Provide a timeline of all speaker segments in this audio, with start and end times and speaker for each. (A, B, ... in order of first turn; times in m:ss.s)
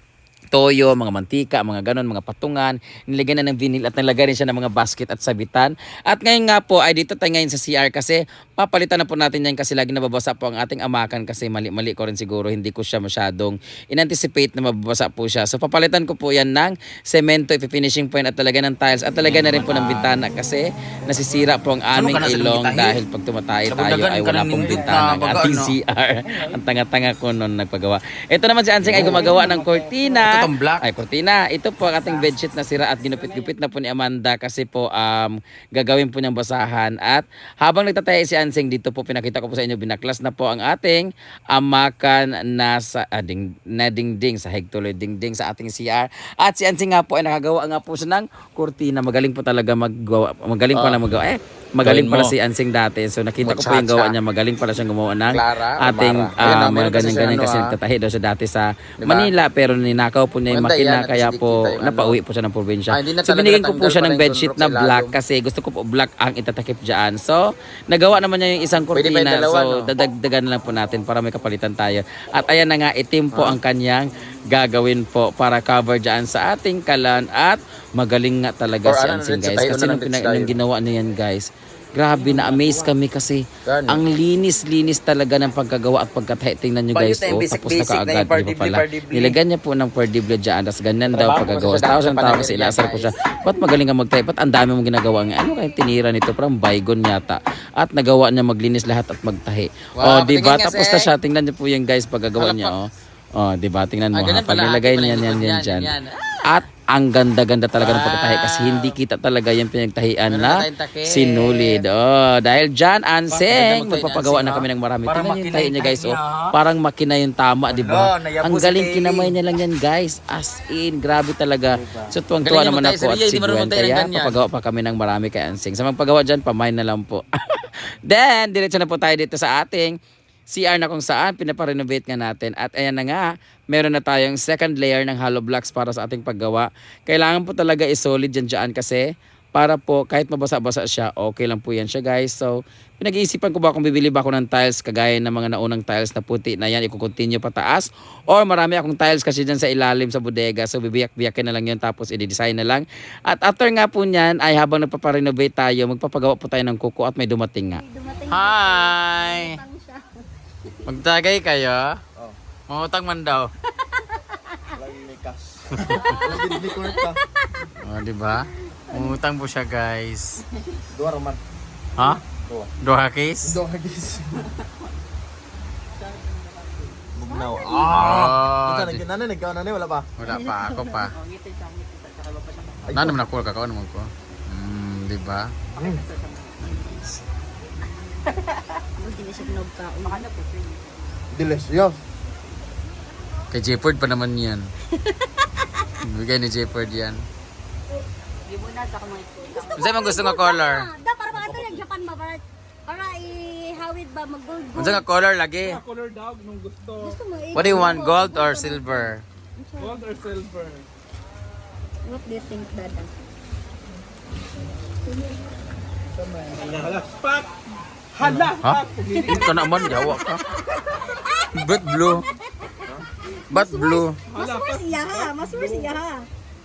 0:00.5-1:45.9 A
0:19.2-0:20.2 B
0:21.9-0:23.0 B
0:23.7-0:25.7 B
0:28.8-0:29.4 B
0:30.2-0:30.8 B
0:50.7-0:51.0 B
0:51.8-0:52.3 B
0:53.4-0:54.2 B
0:55.2-0:57.8 B
0:59.0-0:59.3 B
1:00.5-1:02.2 B
1:02.9-1:05.2 B
1:08.9-1:09.9 B
1:13.3-1:13.6 B
1:18.8-1:20.6 B
1:22.2-1:22.9 B
1:23.6-1:24.0 B
1:26.9-1:29.4 B
1:31.1-1:33.1 B
1:40.0-1:41.1 B
1:42.4-1:42.8 B
1:44.1-1:46.5 B
1:46.4-2:10.0 A
1:47.8-1:49.0 B
1:50.3-1:51.8 B
1:53.3-1:56.6 B
1:57.7-1:59.3 B
2:01.8-2:04.4 B
2:10.5-2:37.8 A
2:37.7-2:40.7 C
2:38.3-2:39.6 B
2:40.9-2:42.0 B
2:42.7-2:43.5 B
2:43.9-2:44.7 C
2:44.7-2:47.2 D
2:45.8-2:46.0 B
2:45.9-2:47.7 C
2:47.8-2:50.4 B
2:48.8-2:49.2 C
2:50.9-2:51.4 D
2:52.3-2:52.7 D
2:52.8-2:53.6 B
2:53.4-2:54.5 D
2:57.1-3:00.1 D
2:57.2-2:58.1 C
2:57.9-2:59.0 B
3:00.2-3:01.1 B
3:00.2-3:01.0 C
3:01.2-3:02.9 E
3:02.8-3:03.2 D
3:02.9-3:05.6 B
3:05.7-3:06.0 D
3:06.1-3:06.6 E
3:06.6-3:07.2 B
3:09.0-3:10.3 C
3:11.3-3:12.0 D
3:13.5-3:14.7 B
3:15.0-3:15.9 C
3:16.0-3:17.2 B
3:18.5-3:25.0 C
3:19.7-3:20.8 B
3:24.8-3:25.8 B
3:25.6-3:27.2 E
3:27.0-3:30.0 C
3:27.5-3:29.2 B
3:29.8-3:30.8 E
3:32.0-3:33.1 C
3:36.5-3:37.3 E
3:38.1-3:39.8 E
3:38.2-3:38.5 D
3:38.6-3:40.4 B
3:40.6-3:41.5 C
3:41.6-3:42.2 B
3:42.1-3:42.7 C
3:43.4-3:46.3 C
3:43.5-3:44.2 B
3:44.3-3:45.9 E